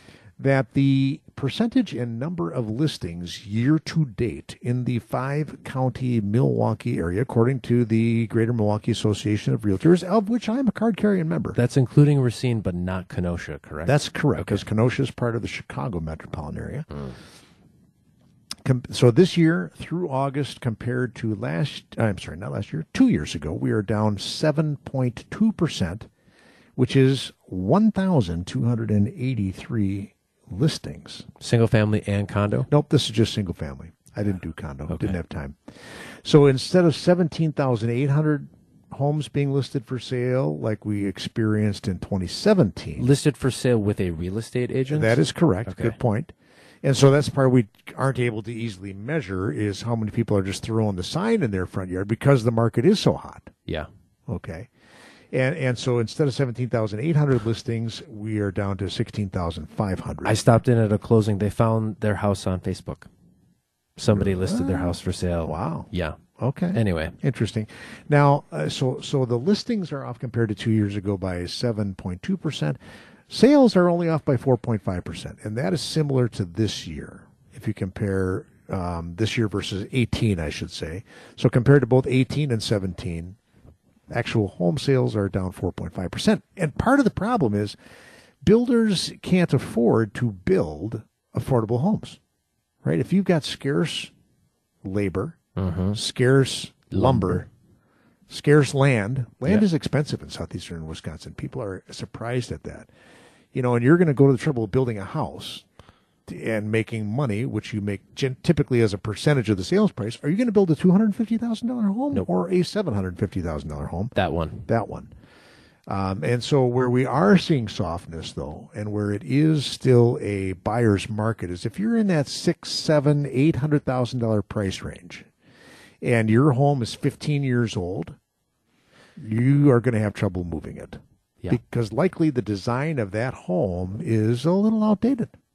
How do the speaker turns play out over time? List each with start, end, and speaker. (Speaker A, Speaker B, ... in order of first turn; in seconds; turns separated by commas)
Speaker A: 0.4-11.6, Speaker B: 11.5-14.6, Speaker A: 13.8-17.0, Speaker A: 18.6-26.1, Speaker A: 26.8-31.3, Speaker B: 31.4-32.7, Speaker A: 32.7-43.1, Speaker B: 34.9-35.2, Speaker B: 43.0-46.0, Speaker A: 44.9-53.5, Speaker A: 54.3-54.7, Speaker A: 55.3-60.4, Speaker B: 60.2-63.1, Speaker B: 64.0-66.2, Speaker A: 64.1-72.8, Speaker B: 66.7-67.1, Speaker A: 73.3-83.4, Speaker A: 84.1-87.8, Speaker A: 88.4-92.2, Speaker A: 92.8-94.1, Speaker A: 94.8-95.4, Speaker B: 95.6-96.0, Speaker A: 95.9-97.5, Speaker B: 96.9-97.4, Speaker A: 98.3-102.9, Speaker A: 103.5-105.6, Speaker A: 106.3-114.1, Speaker B: 114.1-114.7, Speaker A: 114.7-115.1, Speaker A: 115.9-125.3, Speaker A: 126.0-128.2, Speaker A: 129.2-135.3